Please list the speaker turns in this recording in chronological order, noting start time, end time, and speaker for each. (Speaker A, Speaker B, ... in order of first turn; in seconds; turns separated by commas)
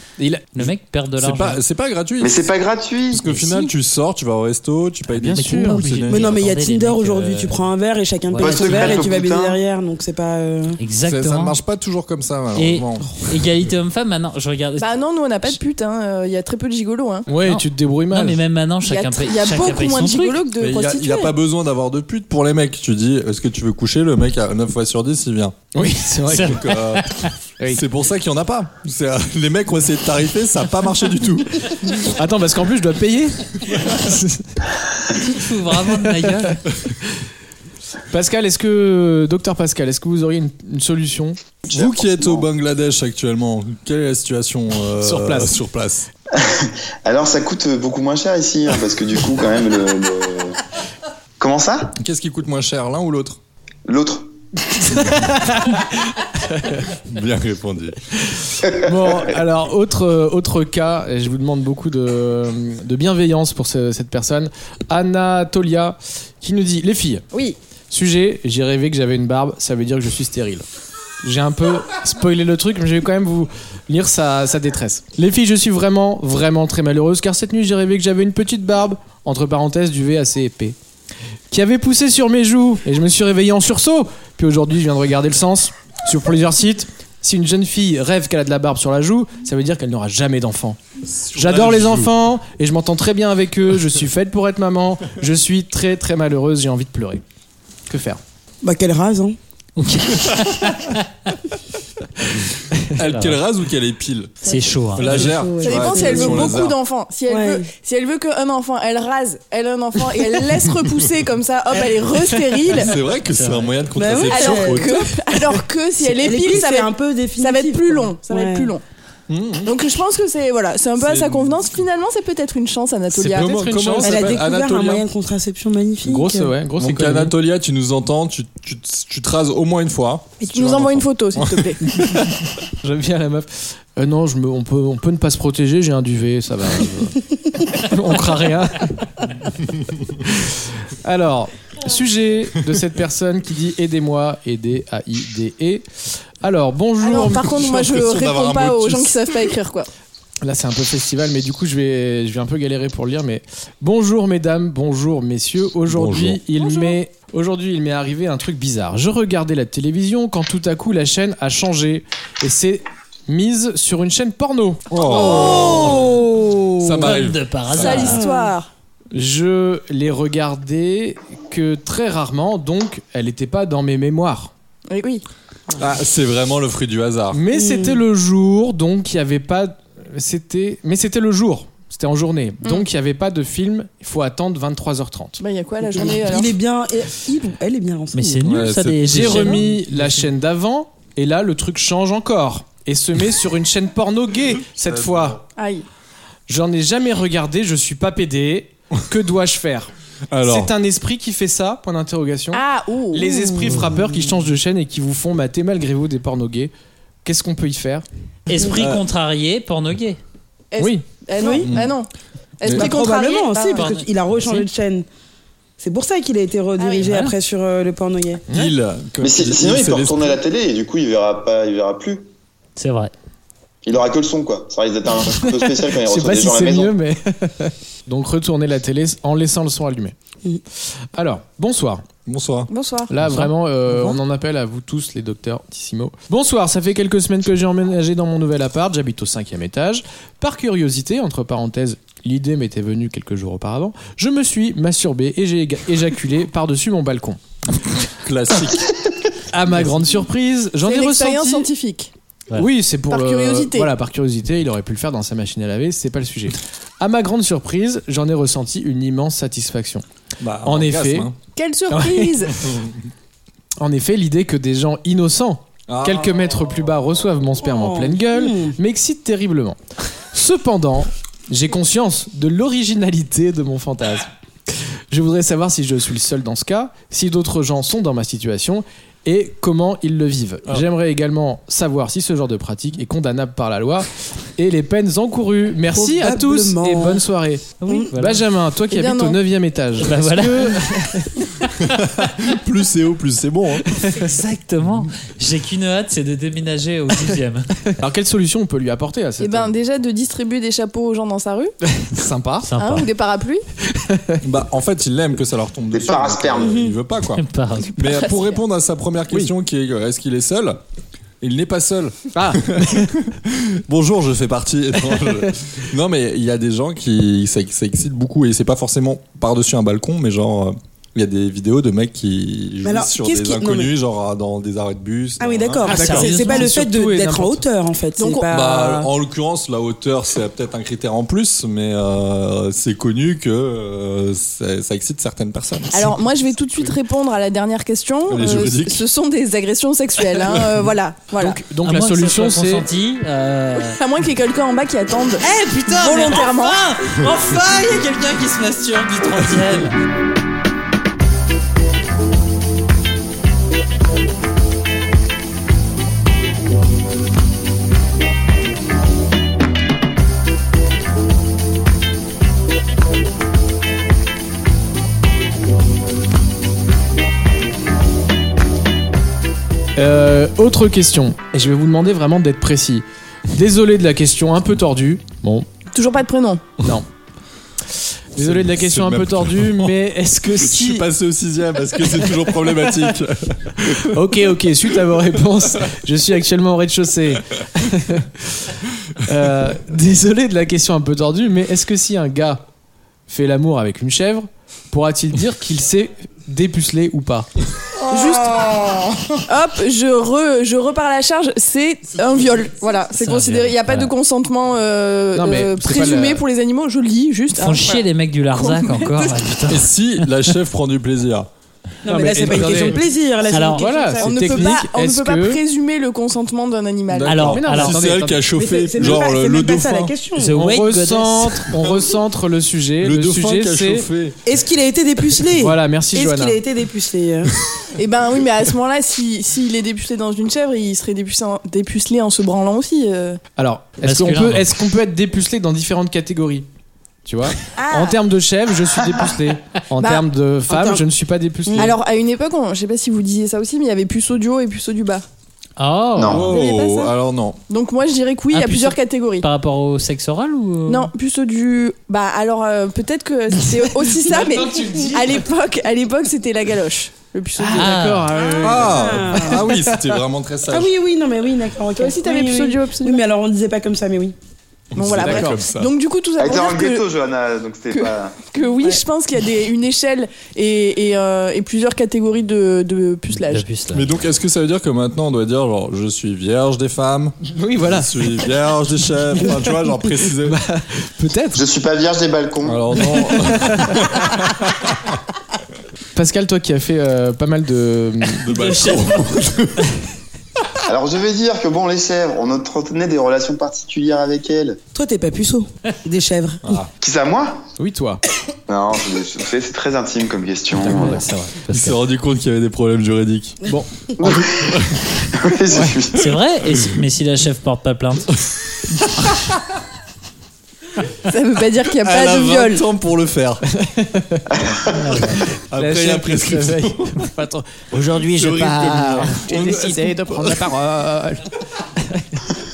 Speaker A: 0.2-0.7, Speaker B: 0.5-1.6, Speaker C: 1.2-2.5, Speaker D: 2.2-3.2, Speaker C: 3.1-6.4, Speaker B: 3.3-3.7, Speaker A: 5.1-5.9, Speaker B: 5.3-7.5, Speaker E: 6.1-10.8, Speaker B: 8.3-8.7, Speaker D: 8.4-9.6, Speaker B: 10.8-11.6, Speaker C: 11.1-13.2, Speaker B: 12.5-14.9, Speaker F: 14.8-17.3, Speaker A: 17.3-18.4, Speaker B: 17.4-20.4, Speaker F: 18.9-21.3, Speaker C: 20.6-25.6, Speaker A: 25.7-26.7, Speaker B: 26.3-27.3, Speaker C: 26.3-31.9, Speaker A: 32.0-34.6, Speaker B: 35.1-36.6, Speaker A: 36.0-36.5, Speaker A: 38.1-41.4, Speaker D: 41.7-42.4, Speaker C: 41.7-46.1, Speaker A: 45.0-45.6, Speaker D: 46.3-50.6, Speaker D: 51.4-51.9, Speaker C: 52.0-53.4, Speaker D: 53.9-54.3, Speaker A: 55.0-56.8, Speaker C: 57.0-58.0, Speaker D: 58.7-59.2, Speaker A: 58.7-67.2, Speaker A: 67.9-70.7, Speaker A: 71.2-80.8, Speaker A: 81.5-90.8, Speaker C: 91.1-92.1, Speaker A: 91.3-97.2, Speaker A: 97.9-98.2, Speaker E: 98.6-99.4, Speaker B: 99.8-101.0, Speaker C: 102.9-104.4, Speaker B: 103.0-103.4, Speaker B: 104.4-105.2, Speaker C: 104.9-106.8, Speaker E: 105.0-106.6, Speaker F: 105.6-112.9, Speaker E: 107.3-107.7, Speaker C: 112.7-115.1, Speaker B: 113.3-113.7, Speaker E: 113.9-115.1, Speaker F: 114.2-118.8, Speaker E: 116.0-118.7, Speaker C: 119.3-119.7, Speaker F: 119.6-123.6, Speaker C: 121.0-121.6, Speaker A: 123.1-124.4, Speaker C: 123.3-125.0, Speaker E: 124.0-126.5, Speaker A: 126.0-127.3, Speaker C: 126.8-131.7, Speaker E: 130.4-130.7, Speaker F: 130.5-131.8, Speaker A: 131.9-139.2, Speaker A: 140.3-145.8, Speaker A: 146.4-147.7, Speaker F: 147.0-149.9, Speaker C: 147.6-149.4, Speaker A: 150.4-164.9, Speaker C: 155.9-156.4, Speaker F: 156.6-156.9, Speaker C: 164.9-166.2, Speaker E: 165.0-167.0, Speaker C: 166.8-168.2, Speaker B: 167.0-168.2, Speaker F: 167.7-168.7, Speaker E: 168.0-168.5, Speaker A: 169.1-174.5, Speaker F: 174.9-175.2, Speaker C: 175.8-177.4, Speaker A: 177.3-185.4, Speaker E: 177.5-178.0, Speaker F: 185.4-186.5, Speaker E: 185.8-188.5, Speaker B: 188.1-190.2, Speaker C: 188.4-189.7, Speaker A: 189.0-195.4, Speaker C: 194.8-195.4, Speaker F: 195.6-195.8, Speaker A: 196.5-206.7, Speaker C: 200.3-200.7, Speaker F: 202.5-203.4, Speaker E: 204.0-204.3, Speaker A: 207.2-208.1, Speaker B: 208.5-210.2, Speaker C: 208.7-209.0, Speaker F: 210.7-212.1, Speaker A: 210.8-211.0, Speaker E: 211.3-211.8, Speaker C: 211.6-211.9, Speaker F: 212.6-213.9, Speaker E: 212.7-215.1, Speaker B: 213.6-214.7, Speaker E: 215.8-218.4, Speaker F: 216.8-217.1, Speaker B: 217.0-217.3, Speaker A: 218.5-218.7, Speaker C: 218.5-220.4, Speaker D: 219.2-222.3, Speaker B: 222.8-223.1, Speaker D: 223.8-226.9, Speaker A: 225.3-230.1, Speaker A: 231.1-232.0, Speaker C: 232.2-232.7, Speaker F: 232.7-233.1, Speaker A: 233.1-247.4, Speaker E: 233.9-234.2, Speaker C: 248.2-249.0, Speaker A: 249.5-251.7, Speaker F: 250.8-252.1, Speaker A: 252.5-260.0, Speaker F: 253.1-253.9, Speaker C: 260.4-261.4, Speaker A: 260.6-261.3, Speaker F: 261.6-262.6, Speaker A: 261.9-262.5, Speaker A: 263.8-291.4, Speaker C: 265.9-266.3, Speaker E: 267.6-268.8, Speaker E: 285.9-287.3, Speaker B: 287.8-288.4, Speaker F: 288.9-289.4, Speaker B: 290.0-290.9, Speaker C: 291.9-294.0, Speaker B: 294.1-297.7, Speaker A: 297.9-299.7, Speaker F: 299.4-301.7, Speaker A: 301.9-302.7, Speaker B: 302.6-303.1, Speaker F: 302.8-303.6, Speaker A: 303.9-304.4, Speaker C: 304.4-307.4, Speaker D: 305.9-306.8, Speaker E: 306.6-306.9, Speaker B: 307.4-308.2, Speaker C: 308.0-310.8, Speaker F: 308.0-308.6, Speaker C: 311.4-326.1, Speaker A: 312.3-313.1, Speaker A: 315.1-315.5, Speaker E: 322.8-323.9, Speaker E: 325.4-329.1, Speaker A: 325.8-327.6, Speaker B: 325.9-326.3, Speaker F: 328.2-328.5, Speaker C: 328.5-335.9, Speaker F: 335.9-341.6, Speaker C: 338.3-339.1, Speaker A: 341.4-342.9, Speaker B: 341.8-344.0, Speaker F: 343.9-346.8, Speaker B: 345.4-350.0, Speaker A: 369.9-375.7, Speaker F: 375.9-376.6, Speaker A: 378.3-381.1, Speaker C: 378.4-379.9, Speaker C: 380.5-384.2, Speaker A: 382.2-383.1, Speaker A: 383.8-392.6, Speaker A: 393.3-397.5, Speaker F: 398.1-398.6, Speaker E: 398.1-399.0, Speaker F: 399.5-409.4, Speaker B: 403.1-404.1, Speaker A: 405.3-406.4, Speaker B: 407.5-409.9, Speaker C: 409.7-411.5, Speaker E: 412.0-414.5, Speaker A: 412.1-413.0, Speaker B: 413.5-413.9, Speaker A: 413.8-415.6, Speaker F: 414.2-417.4, Speaker C: 417.1-420.1, Speaker B: 417.2-418.0, Speaker A: 417.4-418.4, Speaker E: 418.5-420.5, Speaker B: 420.4-421.7, Speaker A: 420.5-424.1, Speaker C: 423.0-424.4, Speaker E: 424.4-427.5, Speaker A: 425.6-426.6, Speaker F: 427.9-433.4, Speaker A: 433.6-436.7, Speaker B: 434.0-434.7, Speaker A: 437.2-441.9, Speaker E: 437.8-438.1, Speaker F: 440.0-440.2, Speaker E: 440.7-441.0, Speaker E: 441.7-442.0, Speaker F: 441.7-445.2, Speaker B: 445.8-446.4, Speaker D: 446.1-446.6, Speaker C: 446.3-447.6, Speaker F: 446.4-447.1, Speaker F: 447.7-449.4, Speaker B: 448.5-451.1, Speaker F: 450.9-457.9, Speaker B: 454.6-455.0, Speaker A: 457.6-459.6, Speaker B: 457.7-458.3, Speaker E: 458.3-459.9, Speaker C: 458.6-460.9, Speaker E: 460.7-464.3, Speaker F: 461.9-463.2, Speaker C: 464.9-465.9, Speaker F: 464.9-467.0, Speaker A: 465.2-465.6, Speaker D: 466.4-468.4, Speaker F: 467.9-473.6, Speaker B: 473.5-474.1, Speaker C: 473.9-480.6, Speaker A: 477.5-478.3, Speaker A: 480.4-481.6, Speaker D: 481.5-483.0, Speaker C: 482.6-485.1, Speaker A: 483.0-484.2, Speaker A: 486.1-488.6, Speaker C: 488.4-489.9, Speaker B: 488.5-489.2, Speaker D: 490.9-494.8, Speaker E: 494.9-496.6, Speaker C: 496.6-496.9, Speaker D: 497.0-497.6, Speaker A: 497.8-498.2, Speaker D: 498.7-501.2, Speaker A: 500.8-501.3, Speaker B: 500.8-502.0, Speaker C: 501.7-503.6, Speaker A: 503.7-504.5, Speaker D: 504.2-504.7, Speaker C: 504.4-505.0, Speaker D: 505.4-506.3, Speaker A: 505.7-506.0, Speaker B: 506.1-508.3, Speaker F: 511.2-512.8, Speaker C: 512.0-513.6, Speaker A: 513.7-514.5, Speaker D: 514.5-515.2, Speaker B: 514.9-515.4, Speaker A: 515.3-521.5, Speaker C: 515.7-517.3, Speaker C: 518.1-520.7, Speaker A: 522.0-522.4